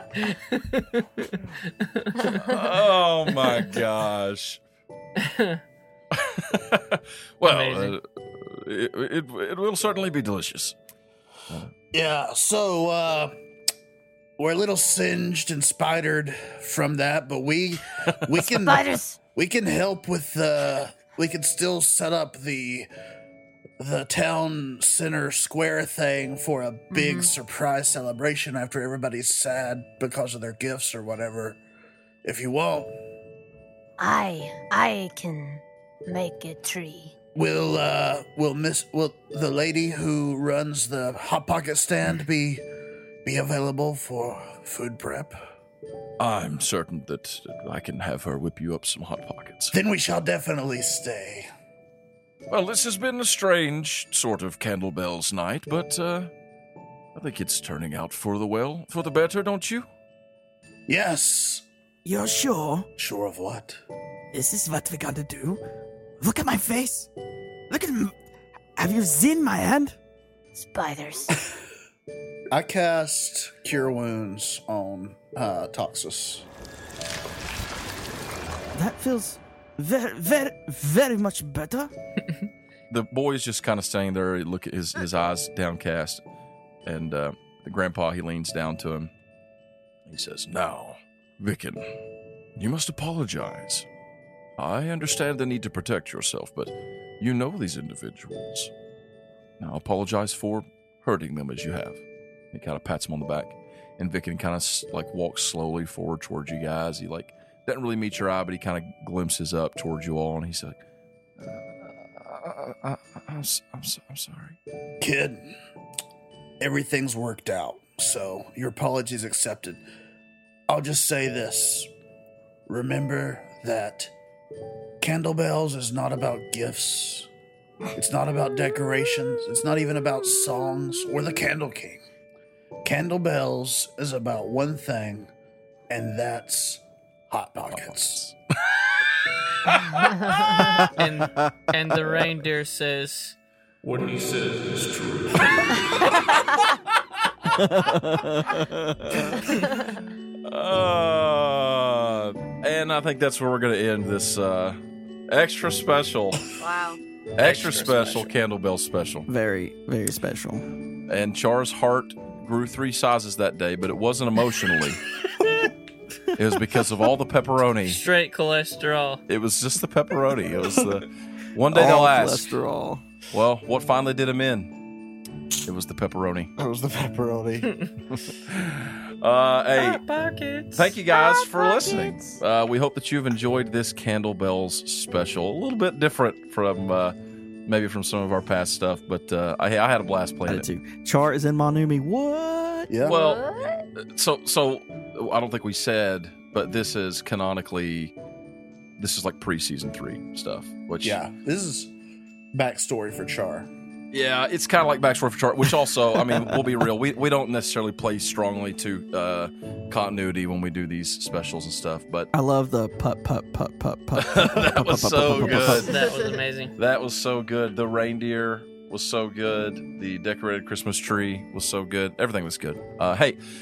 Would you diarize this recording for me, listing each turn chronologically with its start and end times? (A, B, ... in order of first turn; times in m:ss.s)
0:00.2-0:02.5 A
0:02.2-0:04.6 B
0:05.2-0:05.6 A
0:06.1-0:10.8 B
0:07.4-0:08.0 A
0:11.9-0:13.3 C
0:14.4-0:22.9 C
0:18.6-0:19.2 D
0:23.8-0:31.6 C
0:26.9-0:27.3 D
0:32.2-0:32.9 C
0:34.0-0:37.1 D
0:37.3-0:42.6 C
0:43.2-0:45.4 C
0:46.2-0:49.7 B
0:49.7-0:51.5 C
0:52.5-0:56.3 B
0:57.1-0:59.9 B
1:00.9-1:01.7 C
1:02.0-1:02.9 E
1:03.0-1:03.8 C
1:04.3-1:05.6 E
1:06.2-1:07.1 E
1:07.7-1:08.1 E
1:08.8-1:10.0 E
1:10.5-1:11.4 D
1:12.5-1:16.4 C
1:18.7-1:21.9 E
1:22.9-1:26.2 B
1:26.8-1:29.1 B
1:30.0-1:31.9 B
1:32.6-1:33.9 B
1:34.6-1:38.7 B
1:39.6-1:50.8 B
1:51.4-1:54.6 B
1:55.0-1:55.5 C
1:56.6-1:59.8 C
2:00.7-2:01.9 C
2:02.7-2:04.1 C
2:05.0-2:07.3 C
2:07.9-2:12.0 C
2:12.8-2:15.3 C
2:15.9-2:18.2 C
2:17.7-2:18.3 B
2:20.1-2:20.4 B
2:20.3-2:23.4 A
2:20.6-2:21.6 E
2:23.8-2:26.2 F
2:27.5-2:29.4 E
2:30.4-2:34.8 B
2:35.3-2:36.4 B
2:36.6-2:37.0 D
2:37.4-2:39.3 B
2:37.4-2:38.3 A
2:39.3-2:40.7 E
2:41.1-2:45.0 B
2:46.3-2:48.0 B
2:47.8-2:49.2 A
2:49.3-2:52.6 B
2:51.7-2:53.0 E
2:53.3-2:54.7 B
2:55.6-2:56.5 B
2:56.6-2:57.7 C
2:58.1-3:00.0 B
2:59.7-3:00.9 A
3:00.7-3:07.1 B
3:01.1-3:02.4 D
3:07.6-3:10.6 B
3:10.4-3:13.0 E
3:12.9-3:13.2 C
3:13.0-3:13.8 D
3:13.0-3:13.4 B
3:14.0-3:18.1 B
3:19.0-3:21.2 B
3:21.0-3:21.9 C
3:22.5-3:23.7 C
3:24.1-3:32.3 B
3:26.2-3:26.7 E
3:32.3-3:35.9 E
3:34.2-3:35.9 B
3:35.4-3:36.7 A
3:35.6-3:36.4 D
3:36.8-3:43.4 B